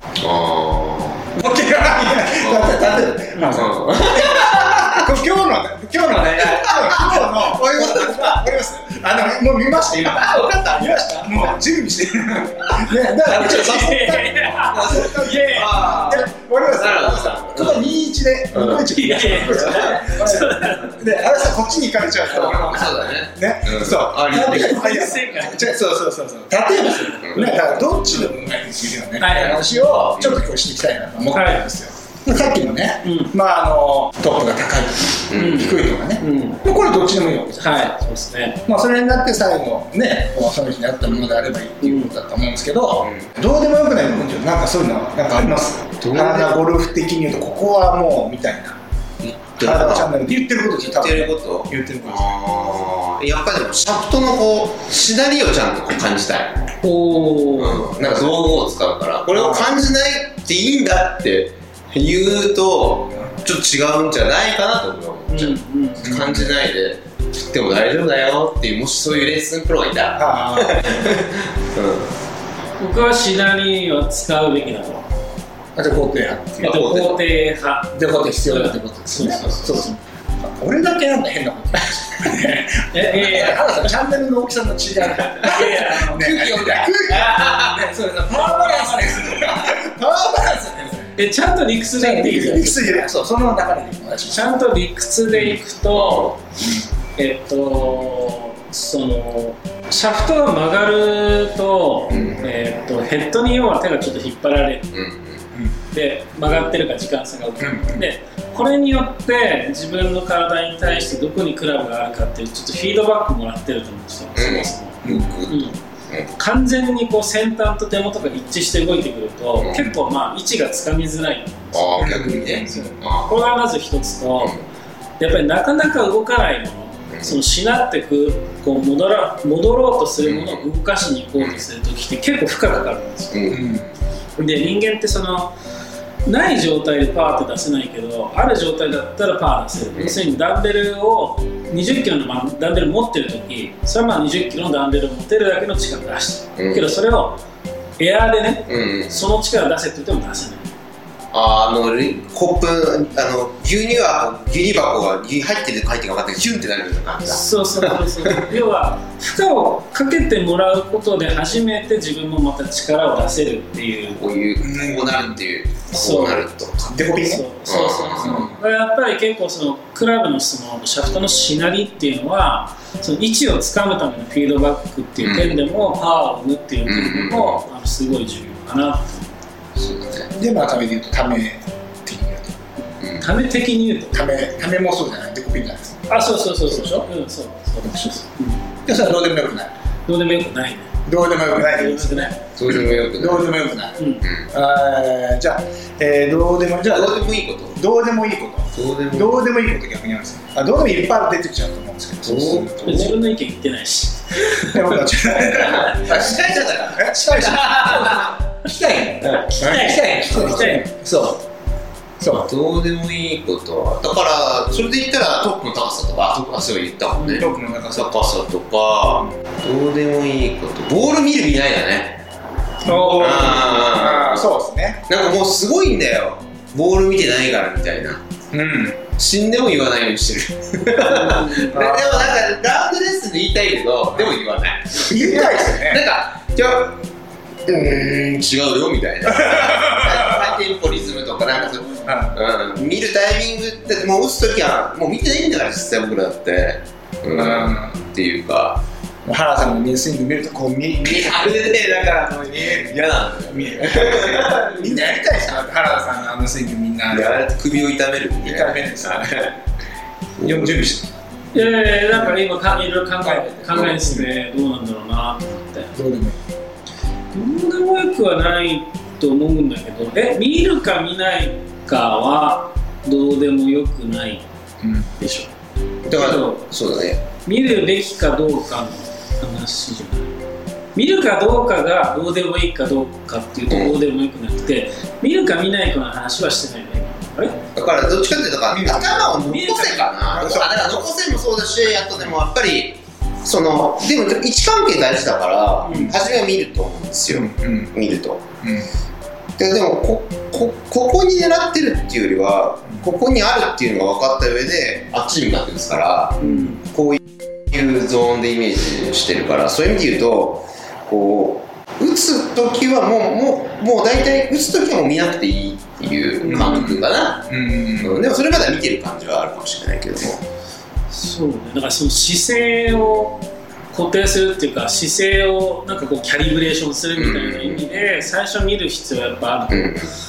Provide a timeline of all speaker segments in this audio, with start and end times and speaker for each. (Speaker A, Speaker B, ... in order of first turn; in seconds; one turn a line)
Speaker A: 0.2-1.4
Speaker B: 1.4-38.0
Speaker A: 2.4-5.2
Speaker C: 3.3-3.6
Speaker A: 6.4-8.5
Speaker A: 10.1-11.3
Speaker A: 13.3-14.0
Speaker C: 13.3-16.2
Speaker A: 14.7-17.9
Speaker A: 18.5-20.0
Speaker C: 18.7-20.9
Speaker A: 22.3-25.1
Speaker C: 24.3-25.6
Speaker A: 27.2-27.8
Speaker C: 27.3-28.3
Speaker C: 29.2-29.6
Speaker A: 29.3-30.4
Speaker C: 31.3-31.7
Speaker C: 33.0-33.3
Speaker A: 35.3-35.9
Speaker C: 35.4-36.6
Speaker C: 37.6-38.6
Speaker B: 38.7-48.8
Speaker C: 41.8-42.1
Speaker A: 43.0-43.3
Speaker A: 46.0-46.6
Speaker A: 49.2-50.1
Speaker B: 49.6-52.4
Speaker A: 50.8-56.7
Speaker C: 56.8-57.9
Speaker A: 57.5-72.1
Speaker B: 58.0-58.4
Speaker B: 59.3-59.7
Speaker C: 65.3-66.1
Speaker B: 66.0-66.5
Speaker B: 70.2-71.0
Speaker C: 72.8-75.1
Speaker B: 75.8-77.0
Speaker A: 76.6-77.2
Speaker C: 76.6-80.0
Speaker B: 78.0-79.9
Speaker B: 80.4-91.2
Speaker C: 82.9-83.9
Speaker C: 85.3-86.2
Speaker A: 85.5-87.9
Speaker C: 91.2-93.1
Speaker B: 92.0-94.5
Speaker C: 94.3-96.3
Speaker A: 95.9-96.4
Speaker B: 96.6-96.9
Speaker C: 97.2-104.9
Speaker B: 102.1-102.4
Speaker A: 104.9-105.5
Speaker C: 105.9-115.8
Speaker B: 107.6-108.0
Speaker A: 114.4-116.3
Speaker B: 115.0-115.3
Speaker C: 116.4-124.6
Speaker A: 119.6-119.9
Speaker A: 121.7-123.5
Speaker B: 122.0-122.9
Speaker C: 125.2-133.4
Speaker A: 127.1-127.4
Speaker A: 130.2-130.6
Speaker A: 133.3-133.9
Speaker B: 133.5-133.9
Speaker C: 134.4-135.5
Speaker C: 136.2-147.4
Speaker A: 146.6-146.9
Speaker C: 148.0-150.7
Speaker A: 148.7-149.2
Speaker A: 151.3-158.5
Speaker C: 157.3-164.2
Speaker A: 164.2-167.0
Speaker B: 164.6-165.4
Speaker C: 165.9-166.5
Speaker B: 166.9-167.4
Speaker C: 167.0-179.4
Speaker A: 167.7-168.5
Speaker B: 168.2-168.6
Speaker A: 175.2-175.6
Speaker A: 176.9-177.7
Speaker A: 179.8-180.3
Speaker B: 180.3-182.6
Speaker A: 183.0-183.3
Speaker C: 183.2-184.3
Speaker B: 184.1-187.1
Speaker C: 186.1-188.7
Speaker B: 187.8-188.2
Speaker B: 188.9-189.7
Speaker C: 190.1-190.9
Speaker B: 191.1-194.0
Speaker C: 191.5-192.4
Speaker A: 192.6-193.6
Speaker C: 194.0-194.2
Speaker A: 194.2-194.5
Speaker B: 194.5-203.1
Speaker A: 196.8-197.8
Speaker A: 198.7-199.4
Speaker A: 202.2-203.2
Speaker C: 202.8-205.9
Speaker B: 204.6-211.4
Speaker A: 205.5-208.4
Speaker C: 209.2-210.9
Speaker A: 210.3-210.8
Speaker B: 212.2-212.5
Speaker A: 212.3-222.2
Speaker C: 217.2-217.5
Speaker B: 217.4-218.4
Speaker C: 222.8-223.7
Speaker B: 222.8-225.0
Speaker A: 223.2-224.5
Speaker A: 225.1-228.2
Speaker B: 228.5-229.1
Speaker A: 229.2-237.0
Speaker C: 231.0-231.8
Speaker B: 231.7-232.4
Speaker B: 235.0-236.0
Speaker A: 237.7-248.8
Speaker B: 239.4-240.5
Speaker B: 242.0-242.4
Speaker B: 247.3-247.9
Speaker B: 249.2-252.9
Speaker A: 251.0-254.8
Speaker B: 253.5-257.4
Speaker A: 257.1-259.6
Speaker B: 258.4-259.4
Speaker A: 260.4-260.9
Speaker B: 260.4-262.4
Speaker C: 261.5-265.9
Speaker B: 263.2-264.3
Speaker A: 263.7-264.0
Speaker B: 265.9-266.4
Speaker C: 267.3-274.4
Speaker B: 274.8-275.1
Speaker C: 275.2-275.5
Speaker A: 276.1-277.2
Speaker C: 276.1-276.6
Speaker C: 277.4-280.4
Speaker C: 280.9-287.6
Speaker A: 283.7-284.0
Speaker A: 287.8-298.4
Speaker B: 288.7-289.3
Speaker C: 289.5-290.2
Speaker B: 290.3-291.0
Speaker C: 295.8-296.1
Speaker B: 297.3-297.9
Speaker B: 298.6-298.9
Speaker A: 299.6-320.4
Speaker C: 306.4-306.8
Speaker C: 316.4-317.0
Speaker B: 316.5-318.2
Speaker C: 321.1-330.0
Speaker A: 327.1-328.3
Speaker A: 329.7-330.1